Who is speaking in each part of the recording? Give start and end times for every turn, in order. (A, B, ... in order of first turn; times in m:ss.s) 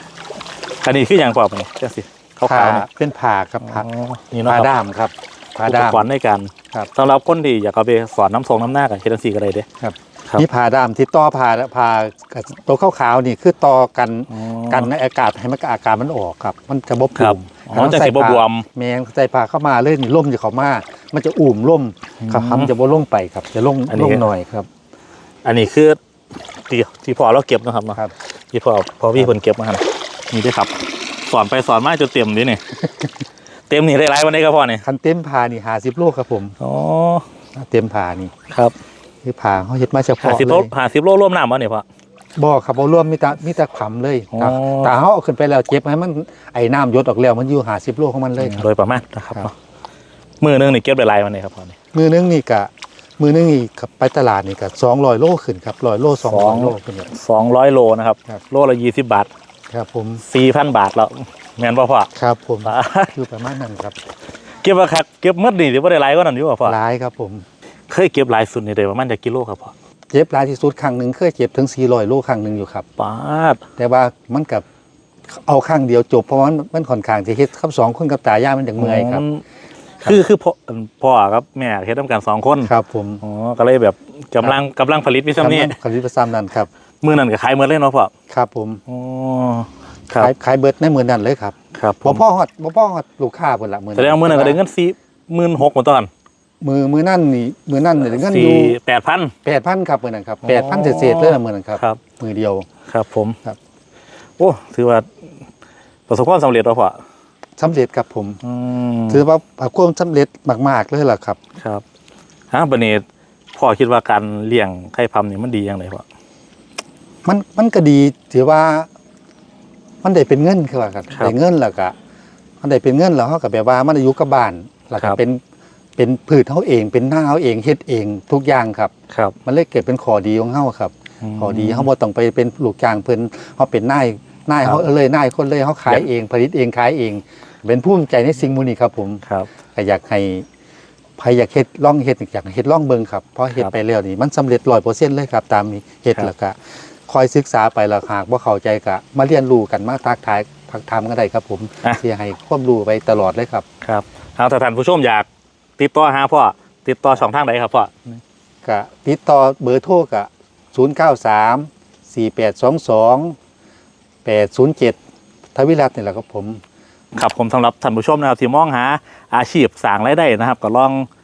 0:00.8-0:02.8 A
0:02.5-0:03.9 B
0:03.6-0:04.7 A
0:04.5-0:06.1 B
0:05.7-0:09.7 A
0:09.8-0:24.7 B
0:14.3-0:14.9 A
0:17.2-0:18.7 A
0:22.2-0:22.7 A
0:23.9-0:24.2 A
0:25.4-0:26.0 A
0:26.7-0:32.6 A
0:33.7-0:34.8 A
0:34.8-0:36.6 B
0:36.6-0:37.3 A
0:37.6-0:38.3 B
0:38.5-0:38.8 A
0:39.2-0:40.7 B
0:40.2-0:41.8 A
0:42.4-0:48.7 B
0:44.3-0:44.9 A
0:48.4-0:49.5 A
0:50.4-0:51.8 A
0:51.9-0:57.1 B
0:56.2-0:59.3 A
0:59.7-1:00.2 B
1:00.2-1:02.1 A
1:02.2-1:04.0 B
1:02.6-1:03.1 A
1:04.6-1:06.8 A
1:06.6-1:07.4 B
1:07.9-1:09.7 A
1:10.1-1:12.9 B
1:13.0-1:13.6 A
1:13.8-1:14.6 B
1:15.3-1:19.2 B
1:18.8-1:19.4 A
1:20.0-1:25.8 A
1:22.6-1:23.2 B
1:25.4-1:26.7 B
1:27.0-1:28.1 A
1:28.3-1:28.8 B
1:28.9-1:30.3 A
1:30.1-1:34.6 B
1:31.7-1:32.2 A
1:34.0-1:36.1 A
1:36.6-1:38.8 B
1:38.0-1:39.3 A
1:39.4-1:42.7 B
1:40.4-1:42.0 A
1:42.9-1:43.4 A
1:44.4-1:45.1 A
1:46.1-1:47.0 A
1:47.6-1:48.4 B
1:48.4-1:49.2 A
1:49.1-1:51.4 B
1:52.5-1:56.0 A
1:57.2-1:58.9 B
2:00.0-2:01.9 B
2:02.6-2:05.4 B
2:06.0-2:08.9 B
2:09.1-2:09.4 A
2:09.5-2:20.5 B
2:11.2-2:11.9 A
2:21.2-2:33.6 B
2:33.8-2:35.3 A
2:35.8-2:38.0 A
2:38.6-2:43.4 B
2:44.2-2:45.0 B
2:45.6-2:46.6 B
2:47.1-2:51.1 A